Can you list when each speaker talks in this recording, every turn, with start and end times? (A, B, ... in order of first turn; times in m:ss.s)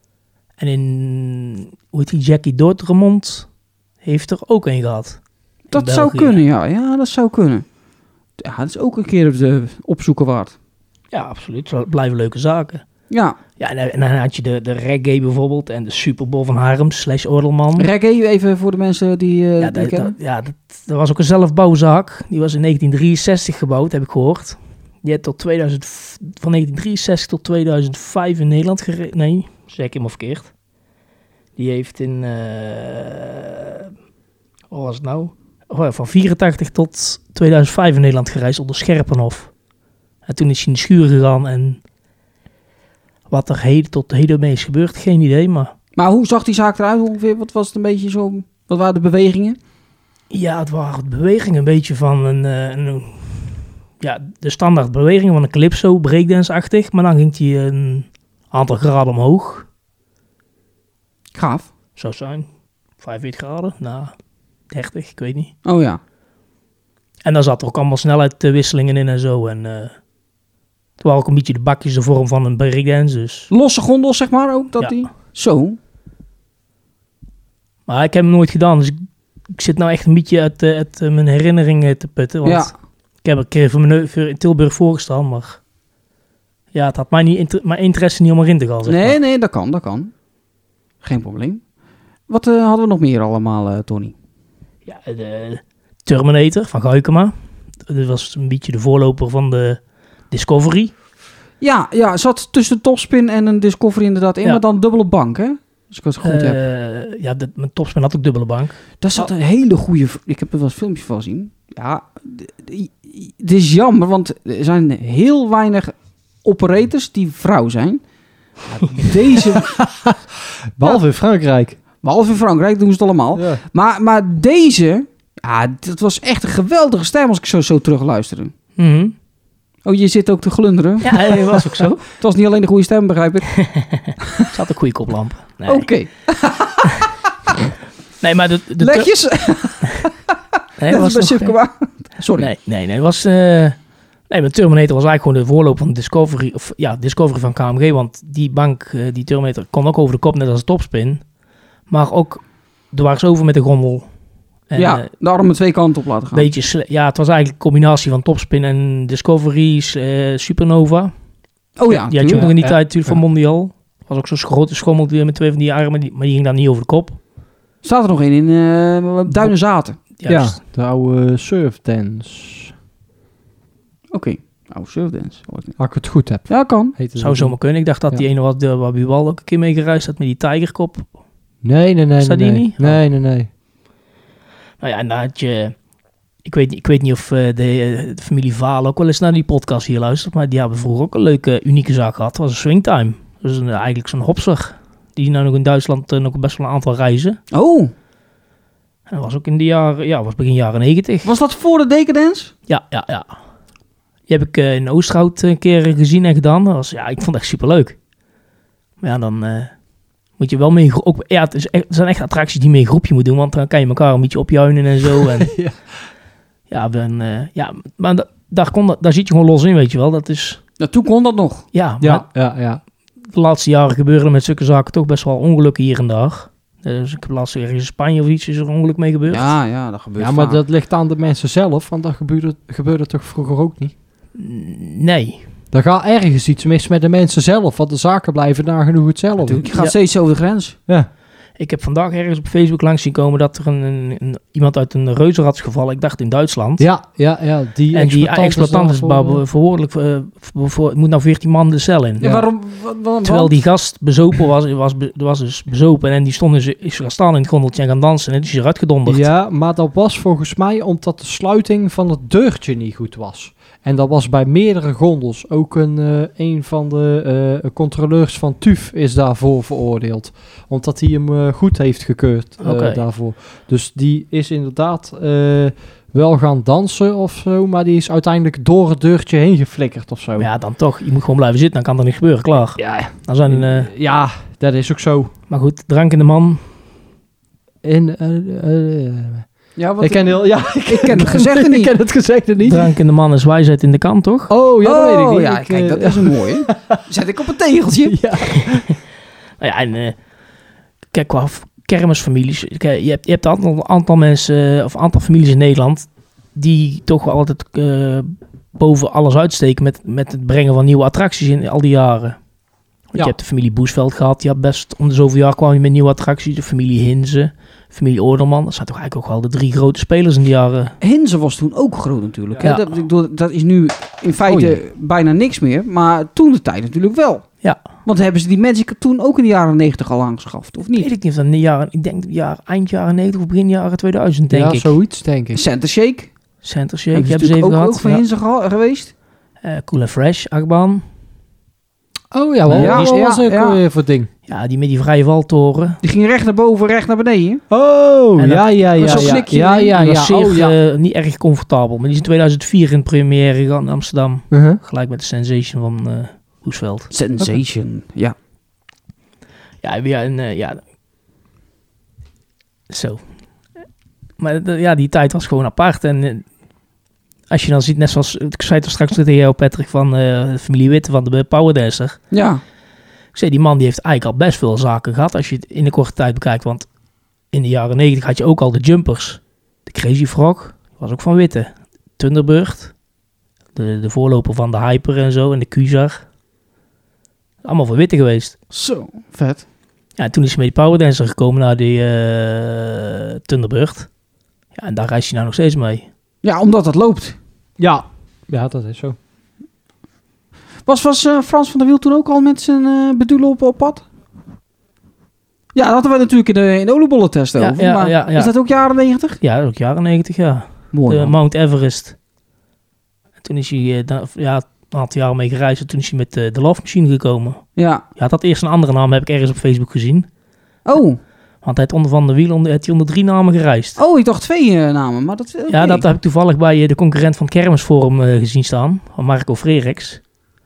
0:00.6-0:03.5 A
0:04.0-0:05.2 A
0:05.7-0:06.4 A
0:05.7-0:07.6 B
0:08.4-0:10.5 B
0:11.1-0:12.8 A
0:13.1-0:13.4 B
0:13.6-0:17.9 A
0:17.8-0:20.2 B
0:19.6-0:30.5 A
0:31.6-0:33.9 A
0:34.7-0:39.5 A
0:40.2-0:41.8 A
0:43.3-0:45.7 A
0:46.0-0:49.6 B
0:50.3-0:59.6 A
1:01.3-1:01.7 B
1:02.0-1:02.5 A
1:03.0-1:04.1 A
1:04.7-1:05.5 A
1:05.6-1:06.0 B
1:07.2-1:09.9 A
1:11.0-1:13.5 A
1:13.5-1:15.8 B
1:17.9-1:19.0 A
1:19.5-1:22.7 A
1:22.4-1:22.7 B
1:23.2-1:25.6 A
1:26.7-1:29.2 A
1:28.8-1:30.1 B
1:31.0-1:31.6 B
1:32.3-1:34.1 B
1:34.8-1:37.3 A
1:37.8-1:39.8 A
1:40.3-1:40.9 A
1:41.6-1:46.6 B
1:46.2-1:49.2 A
1:49.0-1:58.0 B
1:58.7-1:59.8 B
1:59.7-2:00.2 C
2:00.8-2:01.8 C
2:02.0-2:08.5 B
2:03.3-2:03.6 C
2:08.8-2:09.1 A
2:09.8-2:11.4 B
2:11.0-2:12.0 A
2:12.0-2:13.5 B
2:13.6-2:15.9 A
2:15.7-2:17.5 B
2:18.2-2:19.1 A
2:18.8-2:20.1 B
2:20.8-2:21.6 A
2:20.9-2:22.5 B
2:22.3-2:23.8 A
2:24.3-2:31.2 A
2:31.9-2:34.1 A
2:34.7-2:35.1 A
2:34.8-2:36.5 B
2:36.3-2:41.1 A
2:41.8-2:42.5 B
2:41.9-2:47.2 A
2:42.3-2:43.2 C
2:47.8-2:50.0 B
2:50.2-2:50.6 A
2:50.2-2:52.7 C
2:54.1-2:55.8 B
2:55.8-2:57.6 C
2:56.4-2:57.0 B
2:57.2-3:01.0 A
3:01.6-3:03.5 C
3:02.2-3:03.0 A
3:04.8-3:05.7 A
3:06.4-3:17.4 A
3:17.5-3:17.9 B
3:19.1-3:21.3 A
3:21.2-3:22.5 B
3:22.7-3:23.3 A
3:24.3-3:28.0 A
3:29.0-3:29.7 A
3:30.4-3:35.5 A
3:35.2-3:35.8 C
3:36.7-3:40.6 A
3:40.8-3:41.6 B
3:41.7-3:42.2 A
3:42.0-3:42.8 C
3:43.3-3:49.5 A
3:49.3-3:50.6 B
3:50.2-3:53.9 C
3:54.4-3:55.4 A
3:55.7-3:59.6 C
3:59.4-4:00.8 B
4:01.6-4:06.8 A
4:06.8-4:09.4 C
4:07.9-4:12.4 A
4:12.2-4:13.6 B
4:13.2-4:19.2 A
4:19.0-4:40.5 C
4:32.6-4:33.0 A
4:40.4-4:43.9 A
4:42.8-4:45.3 C
4:45.5-4:46.6 A
4:47.8-4:49.5 C
4:49.8-4:51.9 B
4:50.0-4:52.9 C
4:52.6-4:54.5 A
4:54.5-4:57.0 C
4:54.8-4:58.2 B
4:58.0-4:58.9 C
4:59.6-5:00.2 A
5:01.1-5:12.4 A
5:13.1-5:21.0 A
5:21.0-5:27.4 B
5:22.6-5:23.0 A
5:24.5-5:24.8 C
5:28.0-5:31.1 B
5:31.0-5:34.9 A
5:34.5-5:35.6 C
5:35.5-5:36.3 B
5:36.6-5:38.2 A
5:37.1-5:39.1 B
5:39.6-5:41.0 A
5:42.3-5:44.3 C
5:42.7-5:43.1 A
5:42.7-5:43.8 B
5:44.5-5:46.0 A
5:46.0-5:47.6 B
5:47.7-5:50.7 C
5:48.4-5:57.1 A
5:49.0-5:49.9 B
5:54.5-5:54.8 C
5:57.1-5:58.3 B
5:59.8-6:00.8 A
6:02.9-6:03.2 A
6:04.4-6:06.4 A
6:07.5-6:12.2 A
6:12.3-6:12.6 B
6:13.3-6:16.8 A
6:17.5-6:22.9 A
6:23.7-6:26.2 A
6:27.6-6:28.6 A
6:28.7-6:29.6 B
6:30.2-6:34.1 A
6:34.7-6:36.1 A
6:36.4-6:37.4 B
6:37.8-6:39.2 C
6:40.8-6:44.0 B
6:45.7-6:49.4 B
6:47.6-6:48.5 A
6:49.4-6:52.2 A
6:50.9-6:51.3 B
6:53.4-7:00.3 A
6:57.8-6:58.0 B
7:00.8-7:01.2 B
7:01.6-7:04.0 A
7:04.0-7:06.0 B
7:05.7-7:10.2 A